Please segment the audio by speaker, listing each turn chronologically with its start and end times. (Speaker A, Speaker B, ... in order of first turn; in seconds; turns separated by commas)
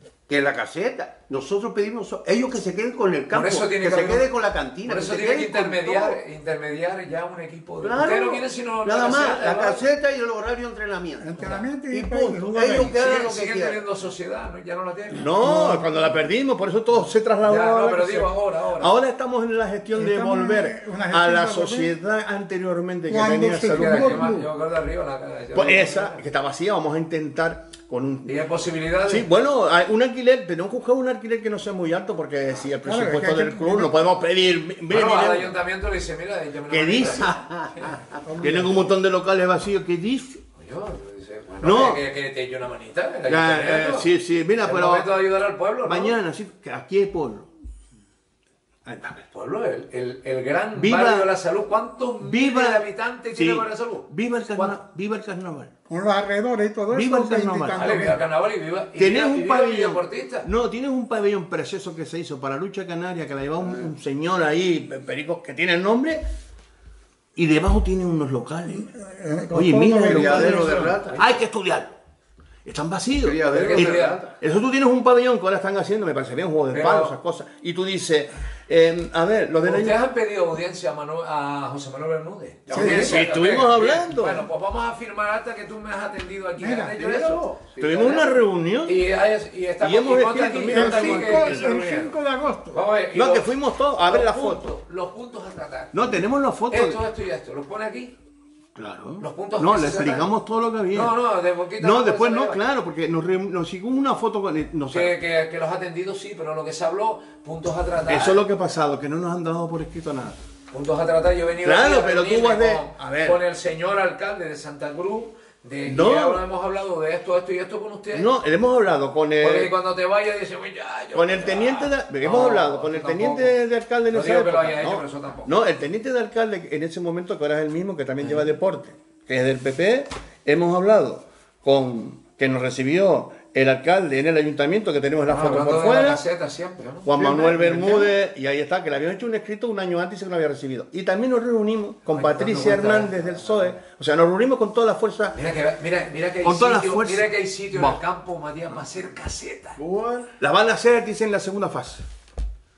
Speaker A: 0.3-6.2, Speaker B: 3.3-4.3, Speaker B: 4.8-9.9, Speaker A: 7.8-13.8, Speaker C: 11.2-12.9, Speaker B: 12.8-15.2, Speaker D: 15.1-24.4, Speaker C: 15.4-15.9, Speaker B: 17.4-18.9, Speaker C: 19.9-21.9, Speaker C: 23.1-24.5, Speaker B: 23.7-26.2, Speaker D: 25.5-28.3, Speaker B: 28.2-29.3, Speaker D: 29.1-35.5, Speaker C: 32.8-33.9, Speaker B: 34.9-37.4, Speaker D: 36.7-37.5, Speaker A: 37.5-38.2, Speaker C: 38.2-38.8, Speaker D: 38.4-40.4, Speaker B: 40.6-44.1, Speaker D: 41.6-42.0, Speaker D: 43.3-45.1, Speaker B: 44.6-46.2, Speaker D: 45.8-47.5, Speaker D: 48.8-49.3, Speaker B: 49.3-54.8, Speaker D: 50.7-51.3, Speaker D: 52.2-55.7, Speaker C: 55.9-58.2, Speaker D: 56.9-58.2, Speaker B: 57.8-60.5, Speaker D: 59.0-66.2, Speaker D: 67.3-68.8, Speaker C: 68.7-70.9, Speaker D: 69.5-71.9, Speaker A: 70.1-71.3, Speaker D: 72.6-80.0, Speaker A: 73.2-74.3, Speaker B: 73.5-74.2, Speaker B: 76.7-77.1, Speaker B: 79.6-87.5, Speaker A: 82.7-83.2, Speaker C: 82.7-83.1, Speaker D: 82.7-84.5, Speaker C: 86.6-87.0, Speaker A: 86.9-88.4, Speaker D: 87.8-89.0, Speaker B: 88.8-92.2, Speaker D: 89.8-91.8, Speaker C: 90.7-92.8, Speaker B: 92.7-93.5, Speaker D: 93.1-94.7, Speaker B: 94.0-95.9, Speaker D: 95.9-97.0, Speaker B: 96.7-98.1, Speaker D: 98.8-101.2, Speaker B: 99.2-100.3, Speaker B: 100.9-102.6, Speaker D: 101.8-105.1, Speaker B: 104.9-108.4, Speaker D: 108.1-110.4, Speaker B: 110.7-118.3, Speaker D: 111.6-113.4, Speaker D: 115.8-116.4, Speaker D: 118.1-119.7, Speaker B: 119.4-123.5, Speaker D: 121.1-136.2, Speaker B: 124.1-125.5, Speaker B: 135.3-138.1, Speaker D: 137.0-145.3, Speaker B: 142.1-143.5, Speaker B: 145.3-149.8, Speaker D: 146.4-148.0, Speaker A: 149.8-150.3, Speaker D: 150.4-152.1